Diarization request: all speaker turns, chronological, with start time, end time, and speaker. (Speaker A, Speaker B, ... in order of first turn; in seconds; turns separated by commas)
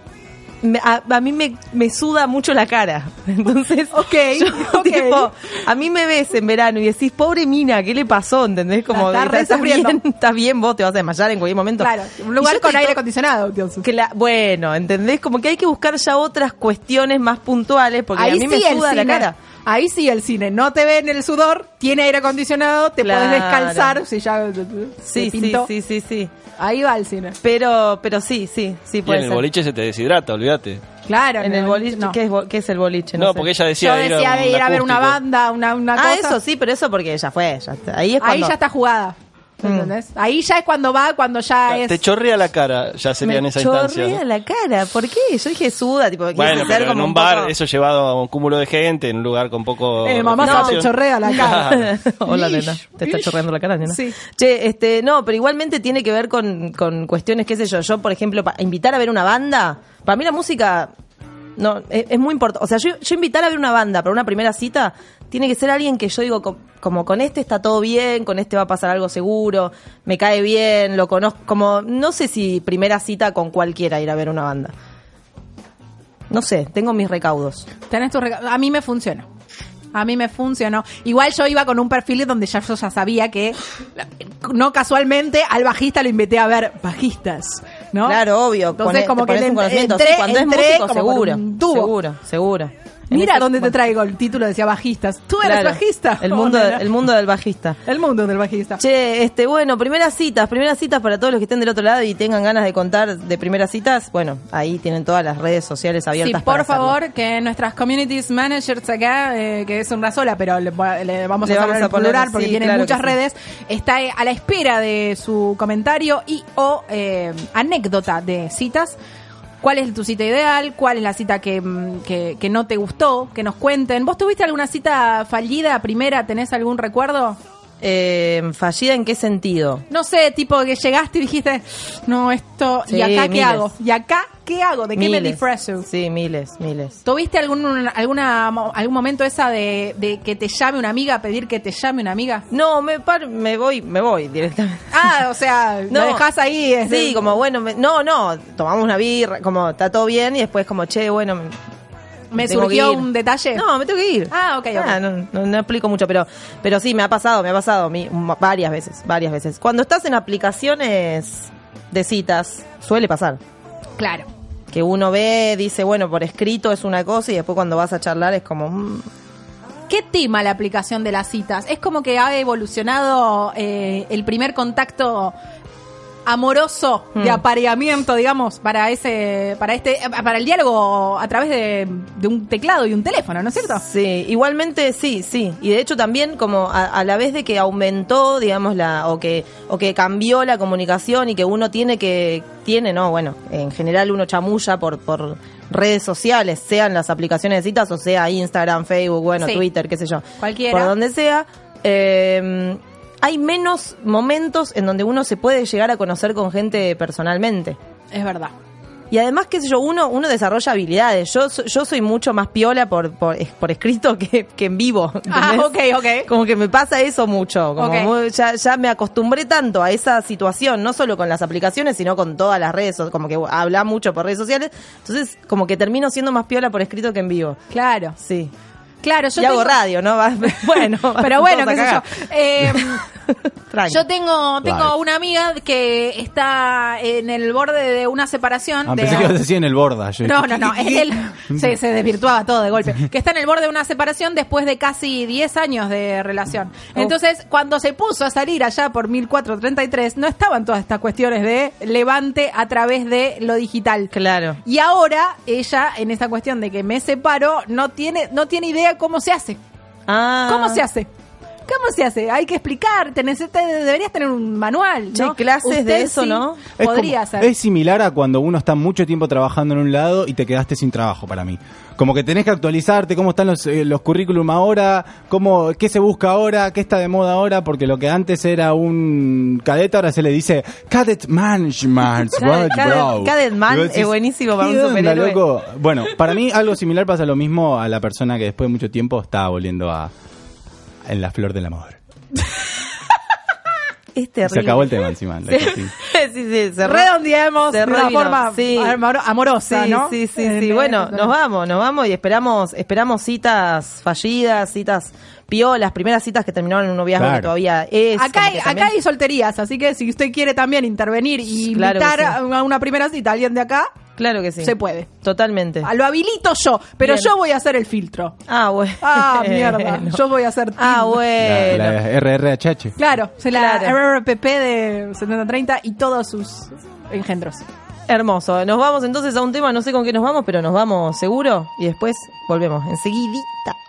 Speaker A: 0.6-13.0, Speaker B: 3.9-5.3, Speaker B: 8.9-10.0, Speaker B: 11.8-13.8, Speaker A: 13.8-19.4, Speaker B: 18.1-25.7, Speaker A: 23.0-24.0, Speaker A: 25.0-26.3, Speaker B: 26.6-27.4, Speaker A: 27.4-29.4, Speaker C: 29.0-30.8, Speaker B: 31.1-32.2, Speaker A: 31.4-33.5, Speaker C: 33.2-35.2, Speaker B: 33.8-36.4, Speaker A: 36.0-38.5, Speaker B: 38.2-42.0, Speaker A: 39.6-39.9, Speaker C: 41.7-44.2, Speaker A: 43.2-47.5, Speaker C: 46.3-51.9, Speaker B: 50.0-54.2, Speaker A: 50.4-60.9, Speaker A: 61.6-74.7, Speaker A: 76.3-77.7, Speaker B: 77.9-79.3, Speaker B: 79.9-88.2, Speaker A: 88.0-93.8, Speaker B: 88.8-91.9, Speaker B: 93.1-96.9, Speaker A: 95.4-97.8, Speaker B: 97.8-98.8, Speaker A: 98.8-107.0, Speaker B: 106.2-119.0, Speaker A: 111.4-113.2, Speaker B: 119.6-127.4, Speaker A: 127.8-129.8, Speaker B: 129.9-135.9, Speaker A: 132.9-133.7, Speaker A: 134.9-137.0, Speaker B: 137.0-142.4, Speaker A: 142.5-144.9, Speaker B: 144.9-147.3, Speaker A: 145.9-146.2, Speaker A: 146.9-151.6, Speaker B: 152.3-153.7, Speaker A: 152.4-163.4, Speaker B: 154.3-155.0, Speaker B: 164.0-164.3, Speaker A: 164.7-169.1, Speaker B: 169.9-175.3, Speaker B: 176.3-183.8, Speaker A: 177.2-177.4, Speaker A: 183.7-207.8, Speaker B: 199.4-199.7, Speaker B: 200.4-200.9, Speaker B: 208.1-208.5, Speaker A: 209.1-215.7, Speaker B: 215.3-216.3, Speaker A: 216.2-227.6, Speaker B: 217.8-218.1, Speaker B: 227.7-228.2, Speaker A: 228.2-228.5, Speaker B: 229.0-229.8, Speaker A: 229.4-232.0, Speaker B: 230.4-233.0, Speaker A: 232.7-234.0, Speaker B: 233.9-239.4, Speaker D: 234.6-234.9, Speaker D: 238.9-241.7, Speaker B: 240.2-259.6, Speaker A: 254.1-254.6, Speaker A: 260.1-260.8, Speaker B: 260.5-261.1, Speaker B: 261.7-267.5, Speaker A: 265.1-266.7, Speaker D: 266.8-290.1, Speaker A: 282.4-285.4, Speaker D: 291.1-292.0, Speaker A: 294.1-297.1, Speaker D: 294.5-295.9, Speaker B: 296.8-301.3, Speaker A: 297.7-299.0, Speaker A: 299.7-308.9, Speaker D: 307.2-307.5, Speaker B: 308.1-313.9, Speaker A: 311.6-312.4, Speaker A: 314.2-315.9, Speaker B: 314.6-315.1, Speaker B: 315.8-318.4, Speaker A: 317.0-317.3, Speaker A: 318.5-320.2, Speaker B: 319.0-321.2, Speaker A: 320.8-322.0, Speaker D: 321.4-322.9, Speaker B: 323.0-327.7, Speaker A: 323.5-324.0, Speaker A: 328.1-333.8